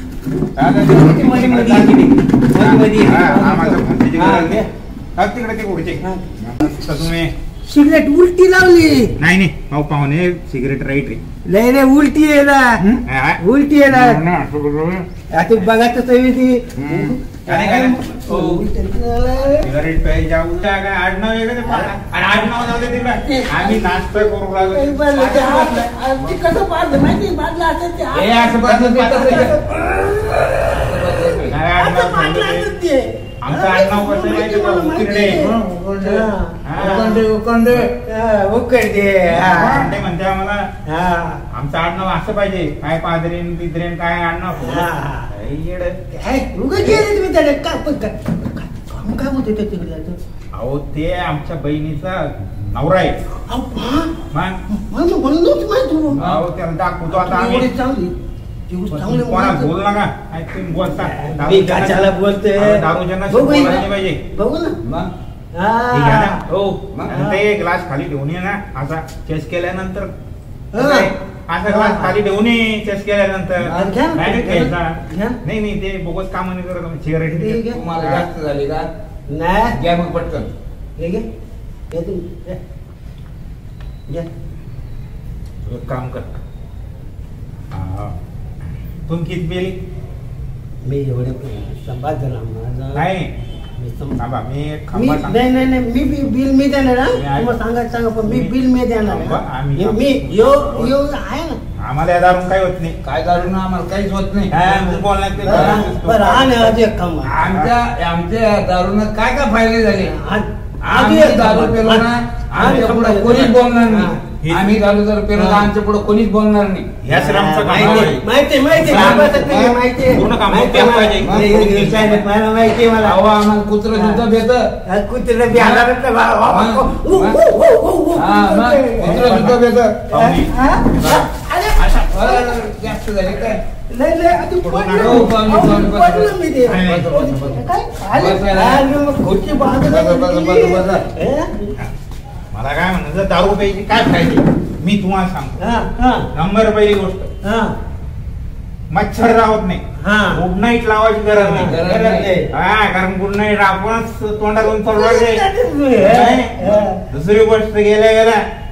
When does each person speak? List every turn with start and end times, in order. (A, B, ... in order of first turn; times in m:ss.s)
0:00.6-0:04.6 A
0:00.8-0:04.7 B
0:05.2-0:06.0 A
0:06.6-0:07.3 A
0:07.7-0:09.1 B
0:09.2-0:11.2 A
0:11.4-0:12.8 B
0:12.8-0:13.4 A
0:13.4-0:14.2 B
0:13.9-0:15.1 C
0:15.3-0:19.7 B
0:16.8-0:17.1 C
0:17.5-0:18.6 A
0:19.6-0:25.9 A
0:21.6-0:21.9 B
0:23.2-0:37.2 B
0:28.1-0:29.6 C
0:28.4-0:29.5 A
0:30.5-0:31.6 C
0:31.5-0:32.7 A
0:33.4-0:35.4 A
0:35.0-0:37.9 C
0:36.6-0:37.1 A
0:38.0-0:39.9 B
0:39.3-0:40.7 A
0:40.9-0:41.4 B
0:41.5-0:46.0 A
0:44.6-0:45.3 B
0:46.1-0:50.2 B
0:50.5-0:53.2 A
0:53.5-0:54.1 B
0:54.3-0:54.6 A
0:54.7-0:56.2 B
0:56.1-0:56.5 C
0:56.2-0:57.7 A
0:57.1-0:58.2 B
0:58.7-0:59.7 B
0:58.9-1:04.2 A
1:00.9-1:04.8 B
1:04.8-1:05.1 C
1:05.5-1:06.4 B
1:05.9-1:10.1 A
1:07.1-1:07.4 B
1:10.7-1:11.1 B
1:10.8-1:18.3 A
1:11.7-1:12.2 B
1:13.6-1:14.7 C
1:13.7-1:14.5 B
1:15.1-1:15.4 B
1:17.4-1:17.8 B
1:17.7-1:18.9 C
1:19.3-1:19.8 B
1:19.7-1:20.5 C
1:21.0-1:21.3 B
1:21.9-1:22.6 B
1:25.7-1:26.3 A
1:27.7-1:28.2 A
1:29.1-1:29.8 A
1:30.8-1:33.1 B
1:33.0-1:33.3 A
1:33.8-1:34.2 B
1:34.2-1:35.4 A
1:34.9-1:41.6 B
1:37.1-1:37.5 A
1:38.2-1:38.5 A
1:39.0-1:40.6 A
1:40.4-1:40.9 C
1:41.8-1:43.0 A
1:43.0-1:44.5 C
1:44.5-1:46.7 A
1:44.5-1:47.3 B
1:45.4-1:45.8 C
1:47.2-1:50.1 C
1:47.5-1:47.7 A
1:50.0-1:54.2 B
1:50.8-1:56.9 C
1:54.4-1:54.8 A
1:55.4-1:55.7 B
1:57.0-1:58.2 A
1:57.1-2:03.2 B
1:57.8-1:58.1 C
1:58.7-1:59.8 C
1:58.9-1:59.3 A
2:00.1-2:02.2 A
2:01.2-2:02.2 C
2:03.0-2:04.7 C
2:03.9-2:04.2 B
2:04.9-2:09.3 B
2:05.5-2:05.9 C
2:06.4-2:07.4 C
2:08.2-2:10.1 C
2:09.0-2:11.3 A
2:10.1-2:12.6 B
2:11.8-2:13.6 C
2:13.9-2:21.8 B
2:14.6-2:15.3 A
2:15.0-2:18.9 C
2:16.7-2:17.1 A
2:19.9-2:21.1 C
2:22.5-2:25.7 A
2:25.6-2:26.3 B
2:26.3-2:27.3 A
2:27.4-2:27.8 B
2:28.9-2:29.8 A
2:30.0-2:30.4 B
2:30.3-2:31.8 A
2:31.3-2:32.5 B
2:31.6-2:32.3 C
2:32.5-2:35.4 A
2:34.8-2:37.0 B
2:36.0-2:38.4 A